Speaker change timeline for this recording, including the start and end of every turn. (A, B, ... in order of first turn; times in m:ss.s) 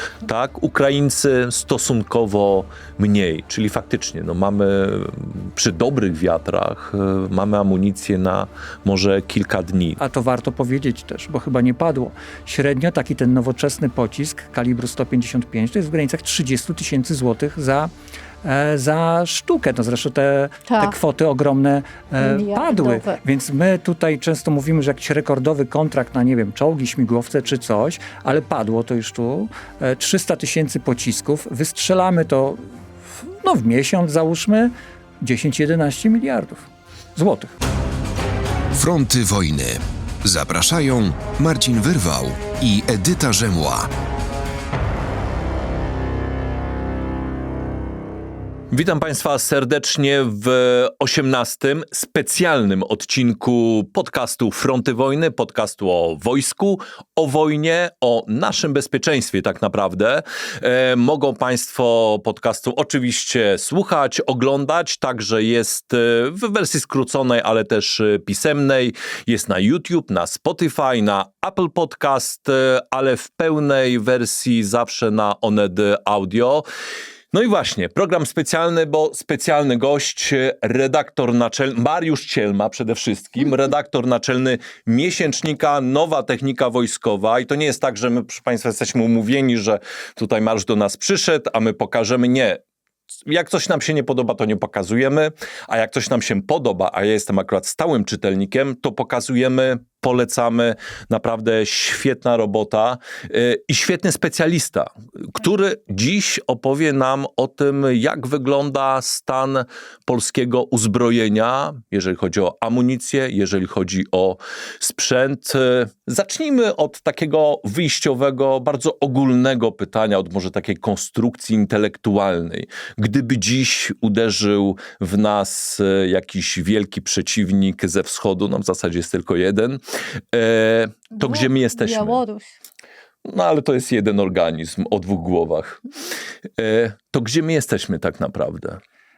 0:00.2-0:10.0 A
0:10.0-0:17.9 B
0:18.4-0:32.6 B
0:20.7-0:21.0 C
0:22.2-0:23.2 C
0:33.4-0:37.5 B
0:38.7-0:43.9 D
0:48.7-1:16.6 A
1:17.3-1:32.6 A
1:33.3-2:09.8 A
2:10.3-2:12.2 A
2:11.2-2:12.5 C
2:13.3-2:15.8 A
2:16.6-2:18.8 A